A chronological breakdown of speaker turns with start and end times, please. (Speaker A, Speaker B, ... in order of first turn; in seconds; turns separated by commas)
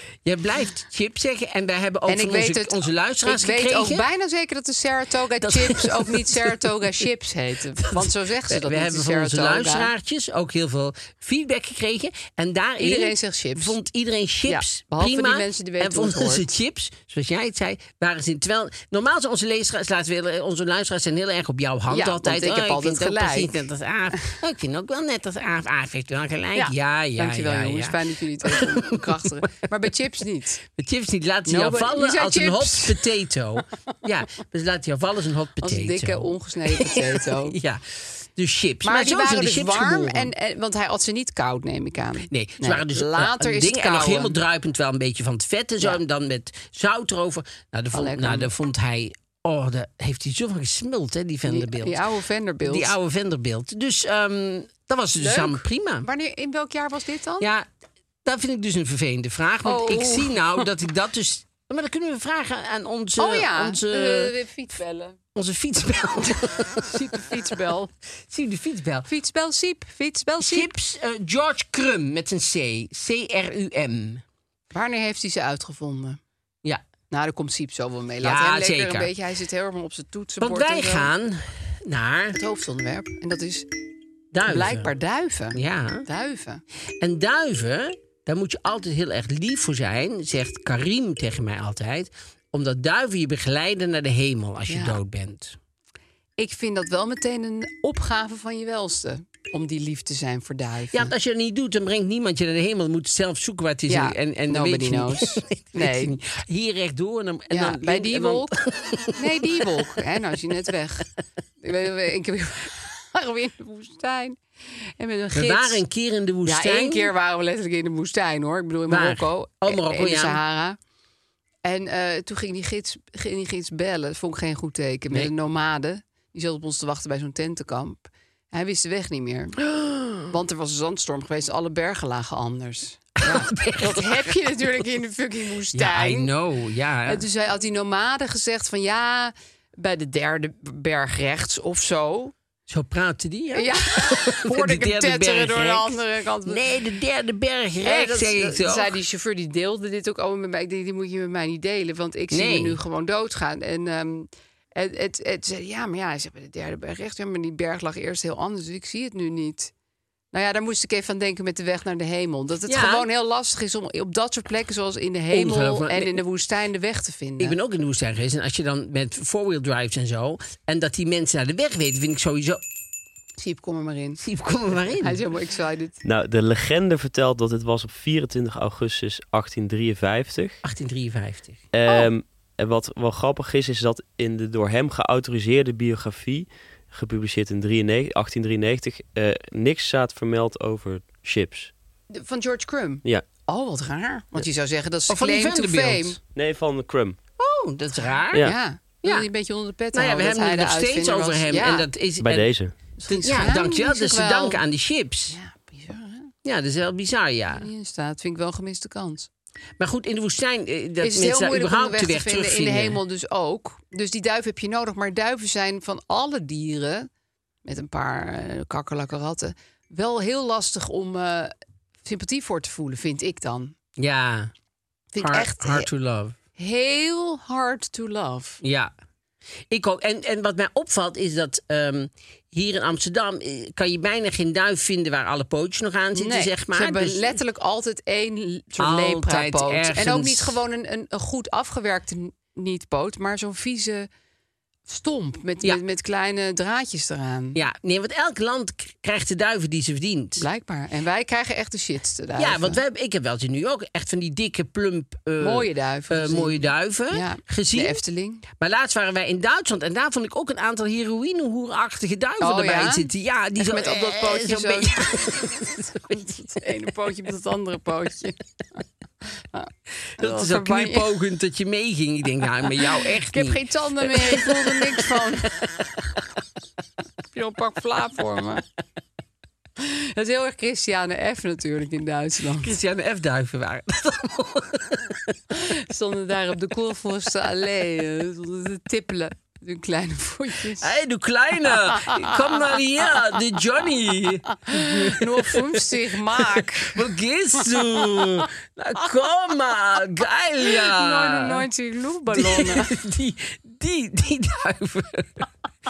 Speaker A: 0.2-4.0, Speaker B: 2.1-9.9, Speaker A: 5.4-6.6, Speaker A: 7.8-29.3, Speaker B: 12.8-13.8, Speaker B: 14.5-16.5, Speaker B: 21.9-23.6, Speaker B: 26.6-30.6, Speaker A: 30.7-40.3, Speaker B: 31.5-33.0, Speaker B: 35.6-37.6, Speaker B: 38.8-44.4, Speaker A: 42.3-52.0, Speaker B: 47.9-48.5, Speaker B: 51.5-52.9, Speaker A: 52.6-56.1, Speaker B: 55.2-57.5, Speaker A: 57.4-57.7, Speaker A: 58.2-64.3, Speaker B: 59.6-60.7, Speaker B: 63.2-65.2, Speaker A: 65.3-66.9, Speaker B: 66.8-67.9, Speaker A: 68.3-69.1, Speaker B: 69.1-70.7, Speaker A: 70.4-74.2, Speaker B: 74.7-76.2, Speaker B: 77.1-81.1, Speaker A: 78.2-79.1, Speaker A: 80.4-82.4, Speaker B: 82.3-83.7, Speaker A: 84.3-84.9, Speaker B: 84.5-86.6, Speaker A: 85.5-86.1, Speaker A: 87.0-95.6, Speaker B: 94.7-95.0, Speaker B: 96.4-101.1, Speaker A: 100.9-110.0, Speaker B: 103.9-106.2, Speaker B: 107.5-108.6, Speaker B: 109.1-111.1, Speaker B: 111.6-115.8, Speaker A: 115.3-117.1, Speaker B: 116.4-120.8, Speaker A: 118.9-120.4, Speaker B: 121.6-129.6, Speaker A: 129.6-130.3, Speaker B: 130.3-136.3, Speaker A: 133.2-134.3, Speaker A: 135.7-137.2, Speaker B: 137.1-142.3, Speaker A: 142.7-148.9, Speaker B: 143.5-146.6, Speaker B: 147.8-159.7, Speaker A: 152.3-152.8, Speaker B: 160.3-167.6, Speaker A: 162.7-163.1, Speaker A: 165.3-166.2, Speaker A: 167.4-172.6, Speaker B: 173.4-174.2, Speaker A: 174.2-175.2, Speaker B: 174.9-176.0, Speaker C: 176.0-180.6, Speaker A: 180.6-181.6, Speaker C: 181.7-191.7, Speaker B: 181.9-182.1, Speaker B: 192.1-196.2, Speaker A: 195.1-196.2, Speaker C: 196.3-197.2, Speaker A: 197.4-198.5, Speaker B: 198.4-201.9, Speaker A: 199.0-199.3, Speaker A: 199.9-202.5, Speaker C: 202.2-202.8, Speaker B: 203.0-204.6, Speaker A: 203.1-205.4, Speaker B: 205.3-206.3, Speaker A: 206.4-207.7, Speaker B: 207.5-209.3, Speaker A: 209.8-213.0, Speaker B: 211.0-217.1, Speaker B: 217.7-223.7, Speaker A: 224.0-224.5, Speaker B: 225.1-225.9, Speaker A: 225.2-226.4, Speaker B: 226.6-228.6, Speaker A: 228.6-228.9, Speaker A: 229.7-237.4, Speaker B: 236.1-244.1, Speaker A: 238.8-240.6, Speaker B: 244.9-247.6, Speaker A: 247.6-250.4, Speaker B: 250.4-252.8, Speaker A: 252.3-266.1, Speaker B: 255.4-258.5, Speaker B: 262.4-268.4, Speaker B: 269.5-271.1, Speaker A: 270.2-275.8, Speaker B: 273.3-275.5, Speaker B: 277.3-278.6, Speaker B: 279.8-282.7, Speaker A: 282.6-285.4, Speaker B: 285.5-290.9, Speaker A: 290.8-301.7, Speaker B: 291.7-293.4, Speaker B: 294.5-297.1, Speaker B: 297.6-298.4, Speaker B: 300.6-303.0, Speaker A: 302.3-305.5